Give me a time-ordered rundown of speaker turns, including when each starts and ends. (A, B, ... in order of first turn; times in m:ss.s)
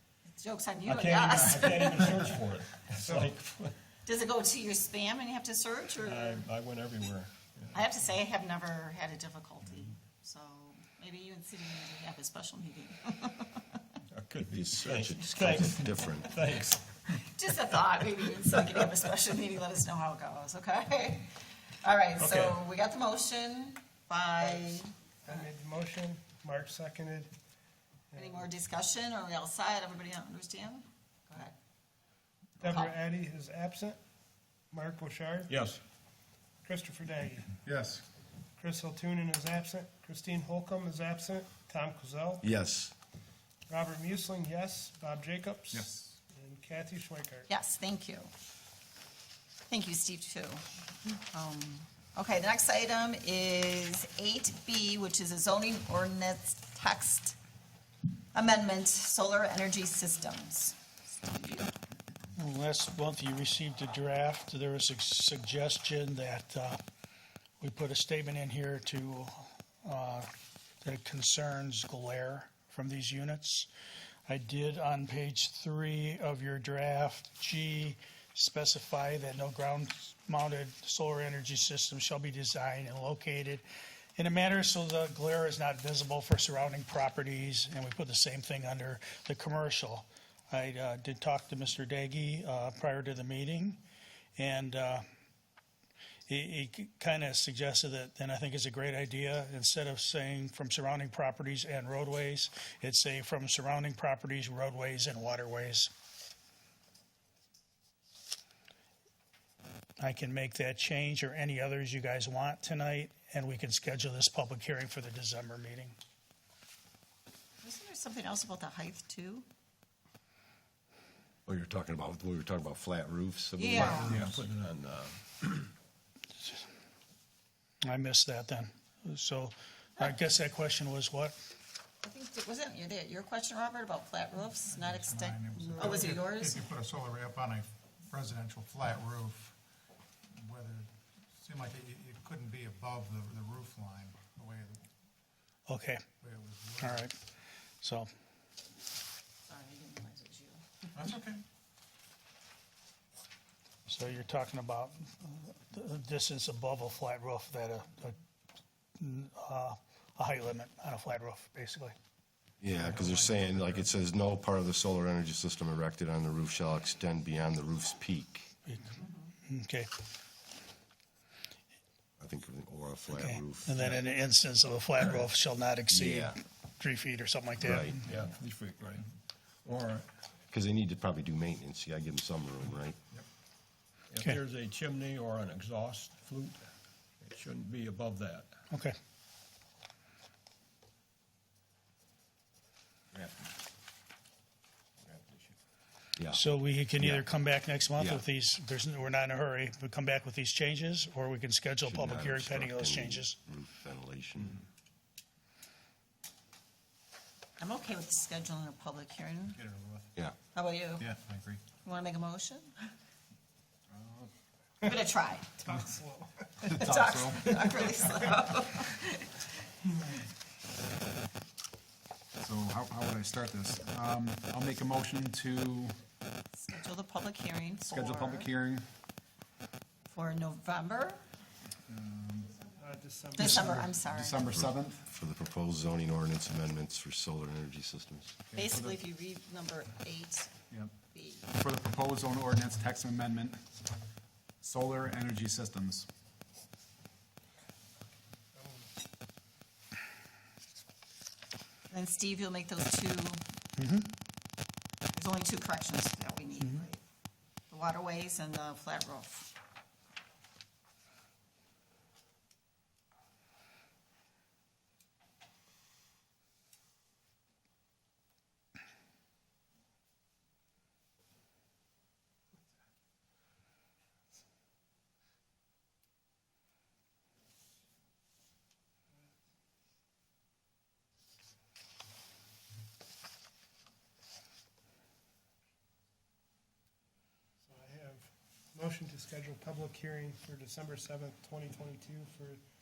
0:00.4-0:02.3 A
0:00.9-0:03.8 B
0:04.1-0:06.4 A
0:06.0-0:07.8 B
0:07.7-0:13.6 A
0:14.1-0:17.2 B
0:14.5-0:16.3 C
0:17.1-0:25.4 A
0:22.2-0:22.6 B
0:24.4-0:27.3 D
0:28.1-0:28.4 D
0:28.2-0:31.5 A
0:32.6-0:34.0 D
0:32.6-0:32.9 A
0:34.7-0:35.5 D
0:35.5-0:35.8 B
0:36.6-0:37.6 D
0:37.6-0:38.0 E
0:38.6-0:42.4 D
0:42.4-0:42.9 C
0:43.7-0:47.5 D
0:47.5-0:48.3 A
0:49.7-0:57.4 A
0:58.3-1:01.7 A
1:02.4-1:06.8 F
1:07.6-1:10.3 F
1:10.8-1:13.7 F
1:14.3-1:23.6 F
1:24.2-1:33.8 F
1:34.4-1:35.0 F
1:36.3-1:45.9 F
1:50.0-1:56.0 F
1:57.6-1:59.4 A
2:01.5-2:04.2 C
2:03.6-2:04.2 A
2:03.7-2:05.7 B
2:07.9-2:11.4 F
2:12.0-2:16.7 A
2:14.7-2:19.6 E
2:20.3-2:24.9 E
2:25.7-2:26.0 F
2:26.2-2:27.1 E
2:26.8-2:27.1 F
2:27.8-2:28.1 F
2:29.5-2:30.6 A
2:30.9-2:31.4 E
2:33.9-2:38.2 F
2:39.0-2:42.0 F
2:42.6-2:48.5 C
2:42.8-2:43.9 E
2:48.7-2:49.9 F
2:49.0-2:49.3 A
2:52.2-2:53.9 C
2:53.2-2:58.0 F
2:55.9-2:56.4 C
2:57.6-2:58.0 C
2:58.0-2:59.1 B
2:59.6-3:00.1 B
3:00.5-3:03.0 C
3:04.1-3:08.6 B
3:08.7-3:09.0 F
3:15.0-3:15.5 B
3:16.2-3:16.4 C
3:16.3-3:23.4 F
3:17.0-3:17.3 C
3:18.0-3:18.2 C
3:21.8-3:24.6 C
3:27.6-3:29.6 A
3:30.5-3:31.1 A
3:31.0-3:31.6 E
3:31.8-3:32.7 A
3:33.9-3:34.3 G
3:34.8-3:35.6 A
3:35.6-3:36.6 D
3:36.6-3:39.5 A
3:36.7-3:37.4 G
3:42.4-3:46.0 G
3:46.5-3:48.5 A
3:47.9-3:48.9 G
3:50.1-3:51.2 A
3:51.9-3:52.5 G
3:52.8-3:53.9 D
3:53.3-3:54.5 A
3:53.4-3:55.0 G
3:54.4-3:58.3 C
3:58.4-3:59.0 G
3:58.5-4:00.5 A
4:00.7-4:01.0 G
4:01.1-4:01.5 A
4:01.5-4:03.7 G
4:04.6-4:06.1 G
4:08.5-4:08.9 D
4:11.9-4:13.4 A
4:13.8-4:14.1 F
4:15.1-4:17.0 A
4:17.7-4:19.5 A
4:47.6-4:52.6 D